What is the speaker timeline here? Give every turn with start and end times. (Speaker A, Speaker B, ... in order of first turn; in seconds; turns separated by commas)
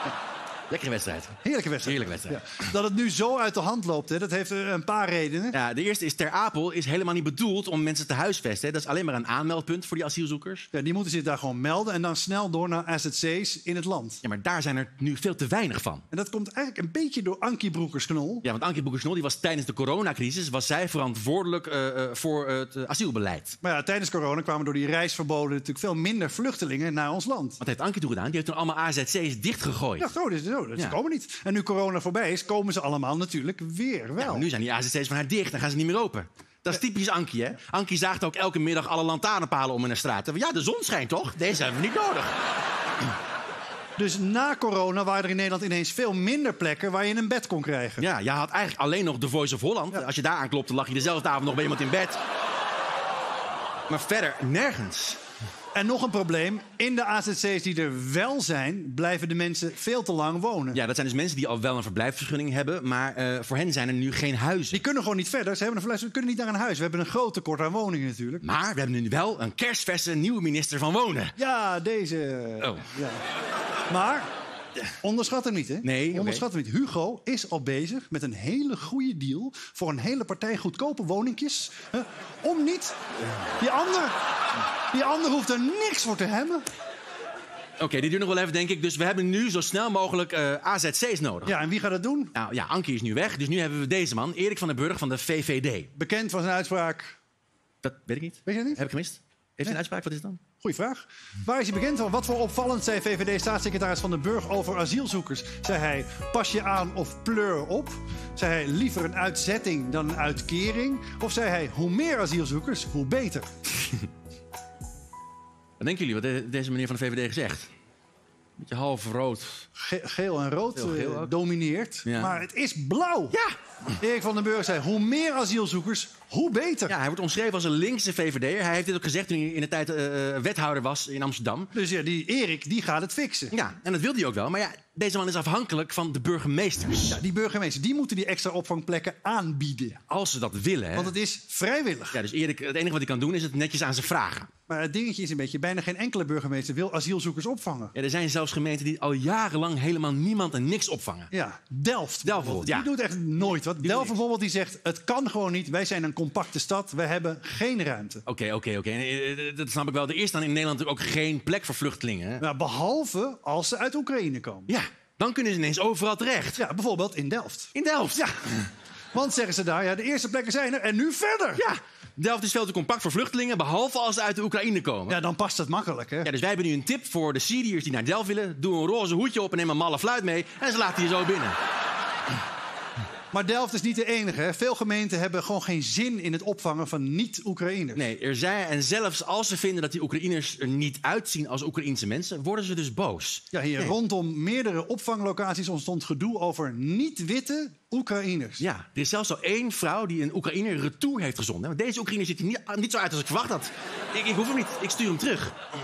Speaker A: 0.7-2.4, Speaker B: 1.4-5.6, Speaker A: 5.5-10.7, Speaker B: 10.7-14.2, Speaker A: 14.2-16.0, Speaker B: 16.1-18.4, Speaker A: 18.4-23.6, Speaker B: 23.6-27.6, Speaker A: 27.6-30.1, Speaker B: 30.0-34.5, Speaker A: 34.2-42.4, Speaker B: 44.0-48.1, Speaker A: 48.0-52.2, Speaker A: 53.9-55.2, Speaker B: 55.8-60.8, Speaker A: 60.7-64.8, Speaker B: 64.7-68.4, Speaker A: 68.4-71.3, Speaker B: 71.4-73.2, Speaker B: 73.9-74.3, Speaker B: 75.0-83.0, Speaker A: 75.8-76.5, Speaker B: 83.6-84.2, Speaker B: 84.9-86.6, Speaker A: 87.8-91.6, Speaker B: 91.5-92.3, Speaker A: 92.3-95.9, Speaker B: 96.0-97.2, Speaker A: 97.8-100.4, Speaker B: 98.5-98.8, Speaker B: 100.6-113.5, Speaker A: 115.8-117.7, Speaker A: 118.6-119.7, Speaker B: 119.8-123.4, Speaker A: 120.8-121.3, Speaker A: 122.0-122.3, Speaker B: 124.0-127.0, Speaker A: 126.9-131.7, Speaker B: 131.7-133.5, Speaker A: 133.5-137.2, Speaker B: 137.1-140.0, Speaker A: 140.1-141.1, Speaker B: 140.9-142.2, Speaker A: 142.1-144.5, Speaker B: 144.7-147.9, Speaker A: 147.9-151.3, Speaker B: 151.3-158.2, Speaker A: 152.2-152.9, Speaker A: 153.8-154.2, Speaker A: 158.3-162.4, Speaker B: 162.4-164.7, Speaker A: 164.7-166.6, Speaker B: 166.6-168.3, Speaker A: 167.8-168.7, Speaker B: 169.1-171.7, Speaker A: 171.6-175.2, Speaker B: 175.1-176.3, Speaker A: 176.2-181.6, Speaker B: 183.3-188.1, Speaker A: 188.0-193.9, Speaker B: 193.5-198.6, Speaker A: 198.6-205.6